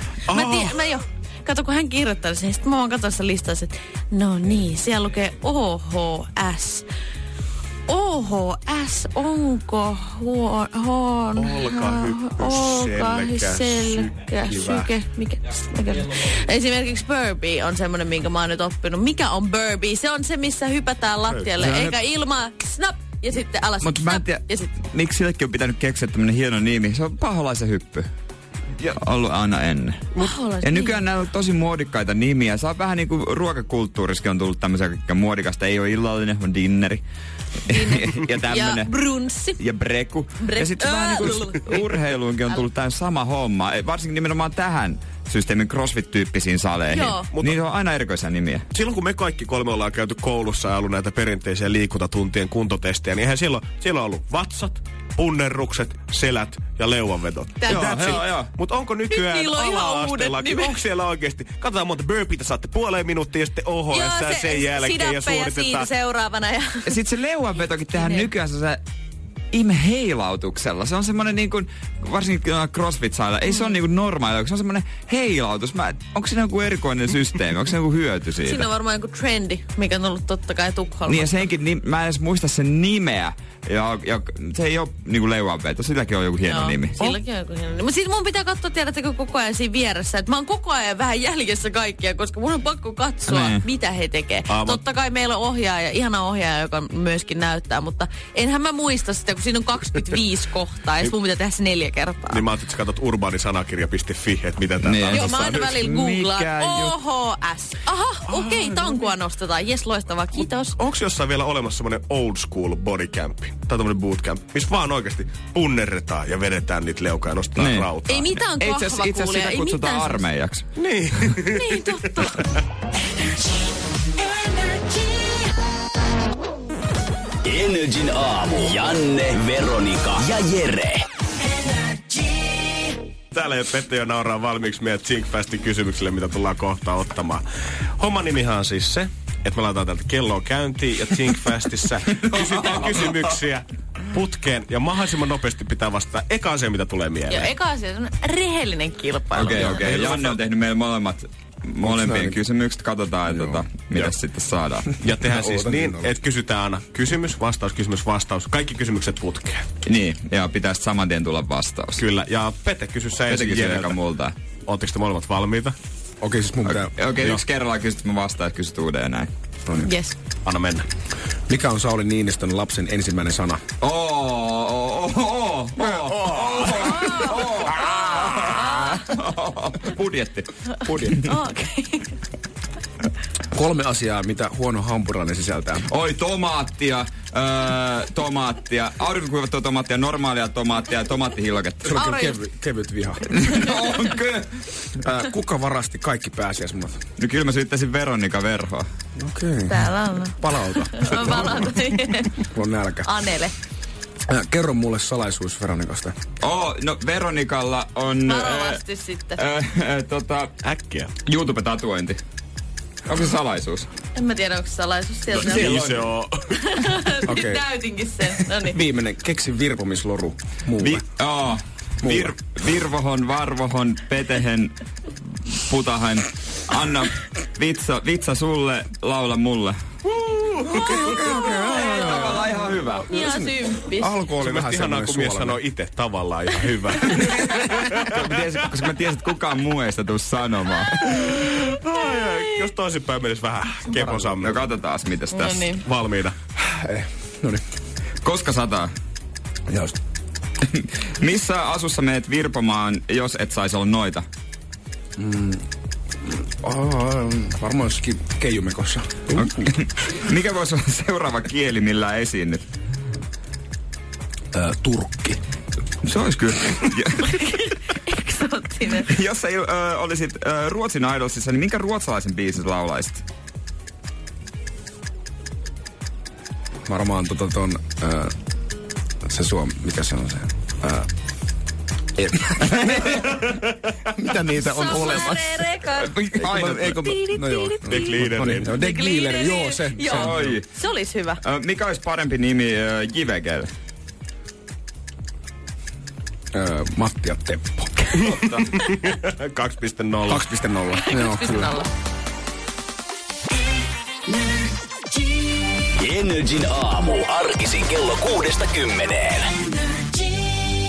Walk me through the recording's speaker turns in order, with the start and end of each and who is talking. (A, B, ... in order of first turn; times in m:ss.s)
0:00.3-0:00.8 A
0:00.3-0:06.9 B
0:07.9-0:24.7 B
0:11.4-0:14.9 A
0:21.3-0:21.9 A
0:23.8-0:28.1 C
0:28.8-0:30.1 C
0:30.2-0:31.0 B
0:30.6-0:37.0 C
0:37.7-0:38.9 C
0:37.7-0:39.6 B
0:39.6-0:48.6 C
0:40.4-0:42.6 B
0:46.9-0:47.3 B
0:47.3-0:47.6 A
0:48.7-1:05.9 A
0:57.6-0:58.2 B
0:57.7-0:58.5 C
0:59.1-1:00.8 B
1:03.9-1:07.0 B
1:06.9-1:08.8 C
1:07.9-1:08.3 B
1:09.5-1:18.6 C
1:13.5-1:13.8 B
1:18.4-1:21.5 B
1:21.1-1:27.1 C
1:26.4-1:42.4 B
1:33.3-1:33.6 C
1:34.5-1:34.8 A
1:42.3-1:45.7 A
1:44.8-1:47.0 C
1:45.1-1:50.8 B
1:48.3-1:49.0 A
1:50.8-1:58.3 A
1:57.6-2:00.6 C
1:58.0-2:00.2 B
2:00.8-2:02.0 A
2:01.5-2:02.5 B
2:04.6-2:05.4 B
2:07.4-2:11.0 D
2:13.3-2:17.4 A
2:18.0-2:27.5 A
2:22.2-2:23.2 C
2:27.3-2:30.1 B
2:29.4-2:34.9 C
2:31.8-2:32.4 E
2:33.3-2:33.7 E
2:35.0-2:39.7 A
2:35.2-2:36.2 E
2:39.8-2:42.0 C
2:42.0-2:44.0 A
2:43.3-2:44.4 C
2:44.7-2:45.8 A
2:46.2-2:47.0 E
2:46.7-2:49.3 C
2:49.8-2:50.2 B
2:50.4-2:50.9 A
2:51.5-2:53.6 E
2:53.8-3:01.3 C
2:56.8-2:57.7 B
2:58.3-2:58.7 B
3:01.2-3:02.1 B
3:03.5-3:05.9 E
3:05.9-3:12.0 C
3:11.8-3:13.2 E
3:11.9-3:12.4 B
3:13.4-3:14.5 C
3:15.0-3:17.0 E
3:17.2-3:18.9 C
3:19.2-3:19.8 E
3:19.7-3:22.4 B
3:20.4-3:21.7 E
3:22.5-3:23.1 E
3:23.0-3:23.5 B
3:24.3-3:26.2 E
3:26.4-3:28.8 C
3:28.2-3:29.4 B
3:29.4-3:30.5 C
3:30.6-3:31.2 A
3:31.2-3:32.2 C
3:33.1-3:33.9 C
3:34.2-3:36.0 B
3:35.3-3:36.6 A
3:35.4-3:36.0 E
3:36.6-3:38.8 B
3:37.3-3:37.6 E
3:38.7-3:41.0 E
3:40.8-3:44.7 C
3:42.0-3:42.4 E
3:45.5-3:49.8 C
3:50.6-3:55.6 E
3:50.9-3:53.1 C
3:51.5-3:54.2 B
3:54.4-3:58.2 A
3:57.4-4:01.0 C
4:01.0-4:04.6 A
4:04.0-4:04.3 E
4:04.4-4:05.8 C
4:05.3-4:05.8 B
4:05.8-4:06.4 A
4:06.7-4:07.6 E
4:08.2-4:08.9 C
4:09.7-4:09.9 E
4:10.7-4:14.2 C
4:15.2-4:15.6 E
4:16.3-4:19.7 E
4:19.4-4:22.6 C
4:24.5-4:25.4 E
4:26.0-4:27.3 C
4:27.2-4:29.1 B
4:29.0-4:33.2 C
4:36.9-4:38.3 E
4:39.2-4:41.1 E
4:42.2-4:43.4 C
4:42.4-4:42.8 E
4:44.2-4:45.7 E
4:44.6-4:46.2 B
4:46.0-4:47.1 C
4:46.4-4:50.6 E
4:46.8-4:51.4 B
4:47.9-4:48.8 A
4:50.1-4:50.7 C
4:51.4-4:53.7 C
4:56.5-4:58.3 E
4:58.2-5:00.5 A
4:58.2-4:58.8 C
5:00.3-5:01.8 E
5:00.9-5:01.9 B
5:06.0-5:09.5 D